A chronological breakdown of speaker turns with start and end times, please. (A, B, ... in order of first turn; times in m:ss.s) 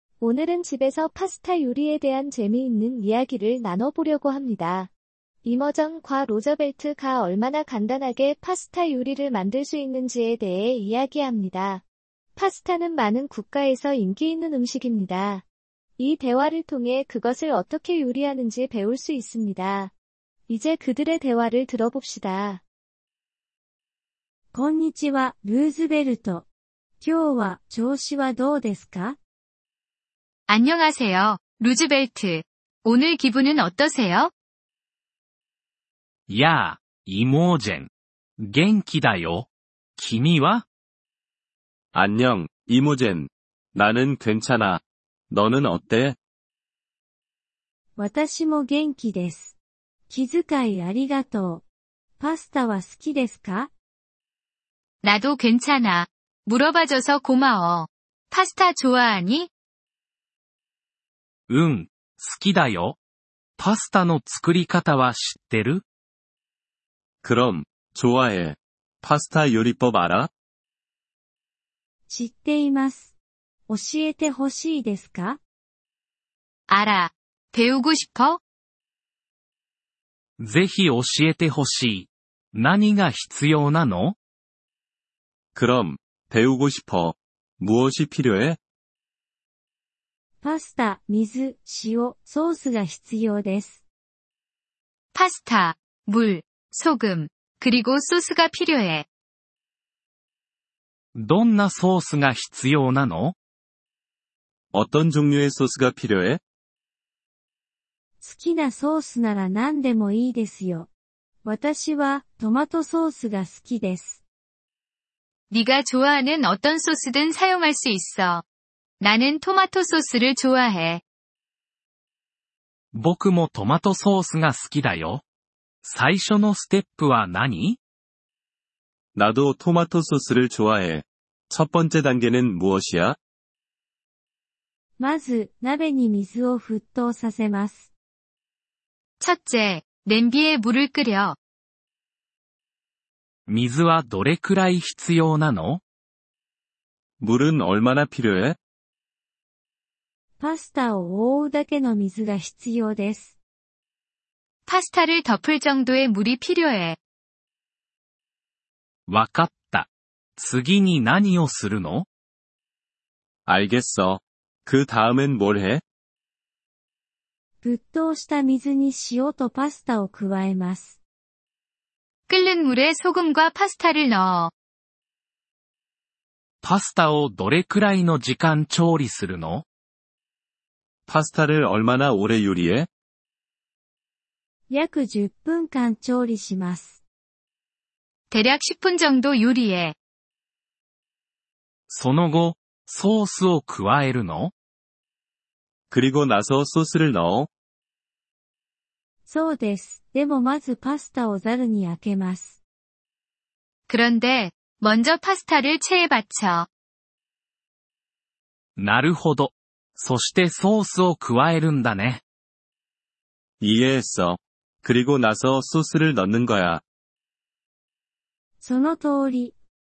0:00.2-0:04.9 A
0:05.4-0:11.8 A
0:12.4-0:15.4 A
0:16.0-0:19.9 A
0:20.5-0:22.6 A
0:24.5-0:26.5 B
0:27.0-0:29.2 B
0:30.5-0:34.3 C
0:36.3-0:40.6 D
0:41.9-0:46.2 E
0:48.0-0:49.6 B
0:50.1-0:51.6 B
0:52.2-0:53.7 B
0:55.0-0:59.5 C
1:01.5-1:03.0 D
1:03.6-1:05.8 D
1:07.2-1:10.3 E
1:12.1-1:13.1 B
1:13.7-1:15.4 B
1:16.7-1:18.4 C
1:20.4-1:24.2 D
1:25.5-1:28.6 E
1:30.4-1:33.8 B
1:35.1-1:39.0 C
1:41.1-1:43.3 D
1:44.7-1:46.4 E
1:48.2-1:50.9 B
1:51.4-1:54.2 B
1:55.5-1:58.4 C
1:59.0-2:01.0 C
2:02.9-2:05.2 D
2:05.8-2:07.8 D
2:09.1-2:13.2 E
2:15.0-2:17.9 B
2:19.2-2:21.4 C
2:23.5-2:25.8 D
2:27.2-2:28.6 E
2:30.4-2:33.4 B
2:34.7-2:37.0 C
2:39.1-2:42.0 D
2:43.4-2:45.8 E
2:47.6-2:51.0 B
2:52.3-2:54.5 C
2:56.6-2:59.6 D
3:01.1-3:02.9 E
3:04.7-3:07.0 B
3:08.3-3:09.9 C
3:11.9-3:14.5 D
3:15.9-3:17.5 E
3:19.3-3:22.6 B
3:23.9-3:26.7 C
3:28.8-3:32.2 D
3:33.6-3:36.8 E
3:38.6-3:39.6 B